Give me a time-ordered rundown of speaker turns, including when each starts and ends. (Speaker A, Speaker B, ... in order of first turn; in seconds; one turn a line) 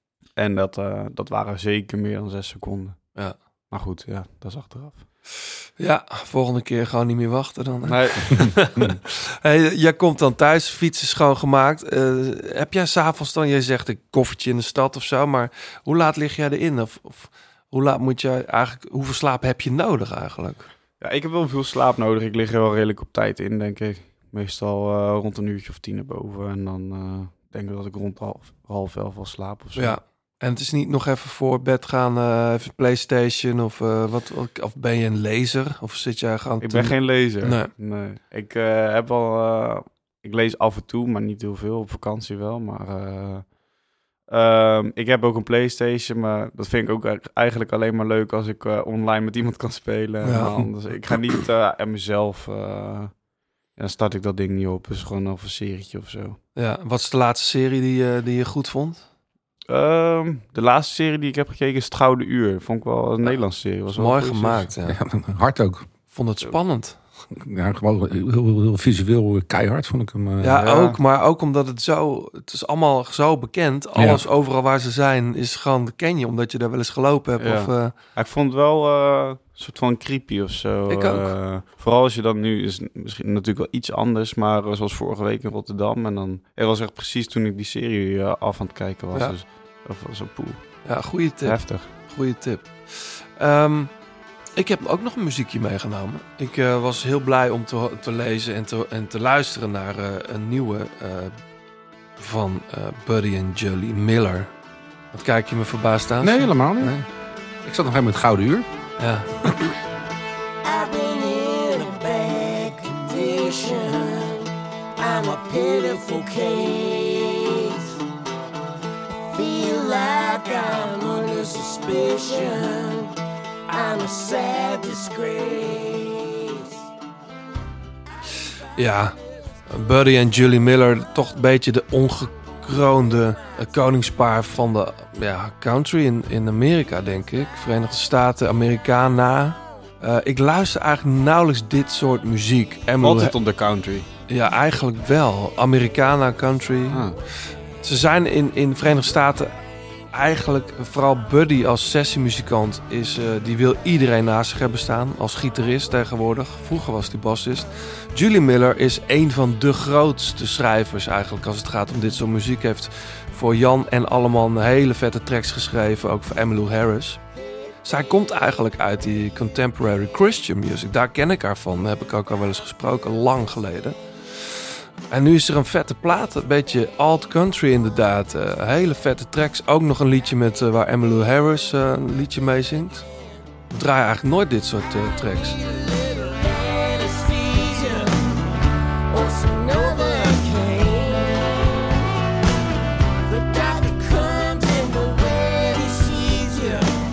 Speaker A: 0.3-3.2
Speaker A: 3.7-5.0
Speaker B: 5.8-20.7
Speaker A: 7.8-9.0
Speaker A: 21.0-30.0
Speaker B: 29.8-37.7
Speaker A: 36.6-43.5
Speaker A: 44.3-53.2
Speaker B: 50.2-50.7
Speaker A: 53.7-56.4
Speaker B: 56.5-59.0
Speaker A: 59.7-64.7
Speaker B: 63.9-65.0
Speaker C: 64.9-65.9
Speaker B: 66.1-67.0
Speaker C: 67.3-70.6
Speaker B: 70.4-77.9
Speaker A: 70.6-71.0
Speaker C: 74.0-74.2
Speaker A: 77.4-90.8
Speaker B: 80.9-81.3
Speaker B: 90.8-93.9
Speaker A: 91.4-91.9
Speaker B: 94.6-101.3
Speaker B: 102.2-104.5
Speaker B: 105.1-107.0
Speaker C: 106.2-107.0
Speaker C: 107.6-108.7
Speaker B: 109.0-109.3
Speaker D: 110.6-114.5
Speaker D: 115.0-117.8
Speaker D: 119.3-123.1
Speaker D: 123.7-126.8
Speaker B: 128.8-129.2
Speaker B: 129.7-143.3
Speaker A: 143.0-144.1
Speaker B: 144.3-147.1
Speaker A: 146.9-147.2
Speaker B: 147.8-149.5
Speaker B: 150.1-167.2
Speaker B: 167.8-183.1
Speaker B: 183.7-185.6
Speaker D: 185.6-188.4
Speaker D: 189.1-191.9
Speaker D: 193.2-196.9